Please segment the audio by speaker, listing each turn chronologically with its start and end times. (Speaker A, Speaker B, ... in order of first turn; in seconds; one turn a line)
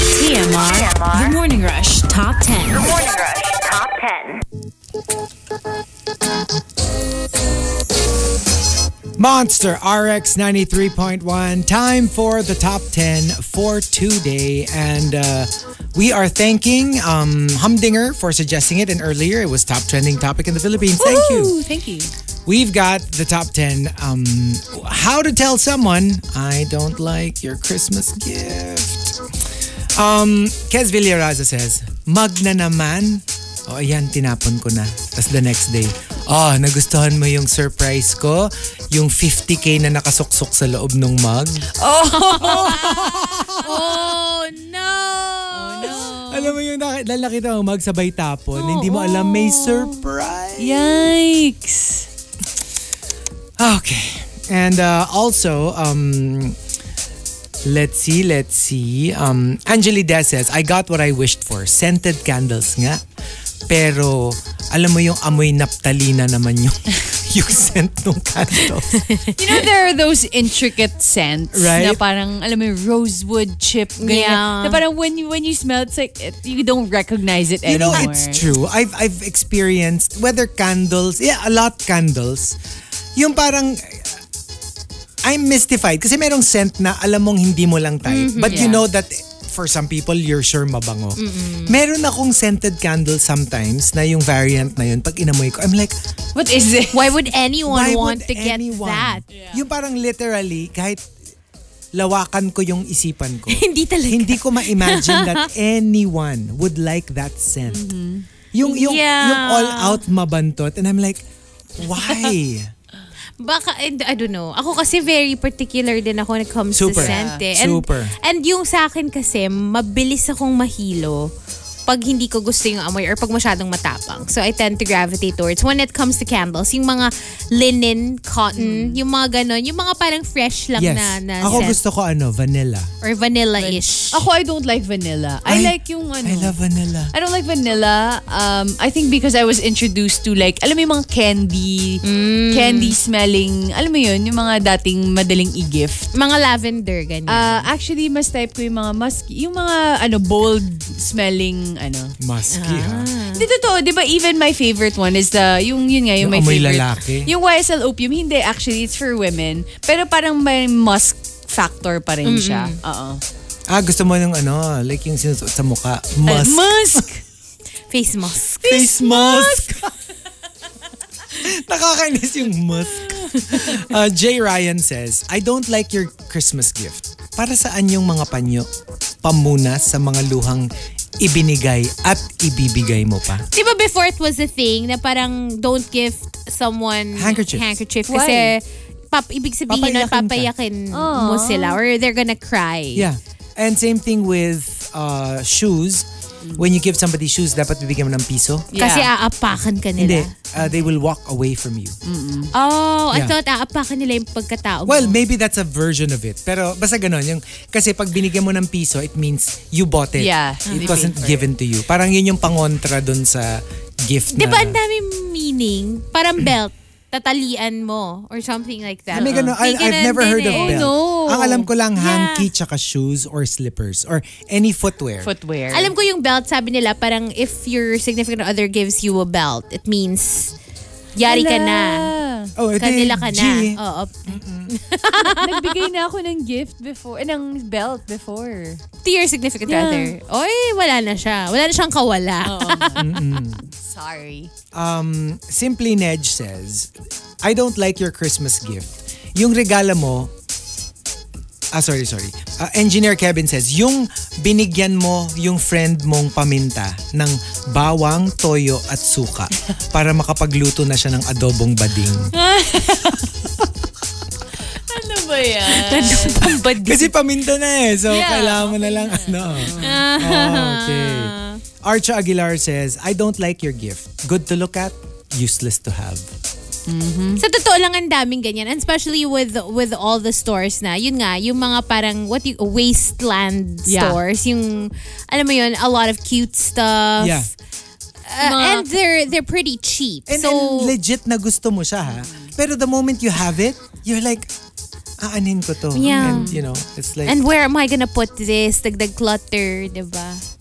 Speaker A: 0.1-2.9
Speaker B: 0.2-1.3
Speaker B: 2.6-4.3
Speaker C: 9.2-21.5
Speaker D: 21.0-22.1
Speaker C: 22.4-29.2
Speaker C: 29.9-41.7
Speaker D: 41.8-43.0
Speaker E: 42.1-46.2
Speaker C: 42.4-43.7
Speaker D: 45.5-46.5
Speaker C: 46.3-51.1
Speaker D: 48.7-50.0
Speaker D: 50.6-52.1
Speaker C: 53.6-56.6
Speaker C: 57.6-63.0
Speaker C: 63.7-69.1
Speaker E: 68.9-69.3
Speaker D: 69.4-78.4
Speaker C: 71.5-72.0
Speaker E: 74.0-74.8
Speaker C: 77.7-82.6
Speaker C: 83.2-84.2
Speaker C: 85.2-95.9
Speaker E: 88.0-88.7
Speaker D: 88.5-88.8
Speaker E: 91.2-91.8
Speaker D: 96.3-97.1
Speaker E: 96.9-99.2
Speaker C: 97.7-101.0
Speaker D: 99.3-99.6
Speaker C: 101.9-107.8
Speaker E: 103.5-105.5
Speaker D: 107.7-108.3
Speaker C: 108.5-111.2
Speaker E: 108.6-110.0
Speaker C: 111.8-112.7
Speaker E: 113.4-121.3
Speaker C: 116.7-118.1
Speaker D: 117.0-117.4
Speaker E: 121.9-131.8
Speaker D: 128.5-129.0
Speaker C: 130.8-132.9
Speaker E: 133.0-134.3
Speaker D: 133.6-136.6
Speaker C: 135.4-137.1
Speaker D: 137.1-146.1
Speaker E: 142.0-143.0
Speaker E: 146.1-147.7
Speaker D: 147.3-152.1
Speaker C: 152.2-153.1
Speaker E: 152.5-153.5
Speaker D: 153.3-163.2
Speaker C: 156.2-157.3
Speaker E: 162.2-162.8
Speaker C: 163.7-167.0
Speaker D: 166.3-167.2
Speaker E: 167.9-168.9
Speaker D: 168.6-169.8
Speaker C: 168.6-169.9
Speaker C: 171.4-178.7
Speaker C: 179.2-183.5
Speaker E: 183.5-193.1
Speaker C: 187.1-187.7
Speaker D: 188.1-188.5
Speaker C: 189.7-190.5
Speaker D: 190.9-191.8
Speaker C: 192.9-198.7
Speaker D: 198.7-199.1
Speaker E: 198.8-200.3
Speaker C: 200.0-201.9
Speaker D: 202.0-202.5
Speaker E: 202.5-205.2
Speaker C: 204.8-214.8
Speaker D: 210.2-211.5
Speaker E: 210.7-211.1
Speaker E: 214.3-221.3
Speaker C: 219.1-225.3
Speaker D: 219.2-219.6
Speaker D: 220.4-221.7
Speaker E: 221.9-222.5
Speaker D: 225.2-225.9
Speaker E: 225.7-230.5
Speaker E: 231.1-232.1
Speaker D: 231.2-232.5
Speaker C: 232.6-234.7
Speaker E: 232.8-235.9
Speaker D: 235.2-238.8
Speaker E: 239.0-243.1
Speaker D: 239.7-240.1
Speaker D: 242.4-244.5
Speaker C: 243.0-243.6
Speaker C: 244.7-246.9
Speaker C: 247.4-250.3
Speaker C: 251.7-262.3
Speaker D: 262.3-263.3
Speaker D: 264.8-266.5
Speaker E: 265.7-267.1
Speaker C: 266.8-276.2
Speaker D: 268.1-270.0
Speaker E: 269.7-271.6
Speaker D: 276.9-277.4
Speaker E: 277.4-287.5
Speaker D: 283.9-284.2
Speaker C: 287.2-287.5
Speaker E: 288.2-290.9
Speaker D: 288.4-288.9
Speaker C: 290.3-294.5
Speaker D: 292.1-292.5
Speaker C: 295.2-297.3
Speaker E: 295.9-296.6
Speaker D: 296.0-296.6
Speaker E: 297.2-300.4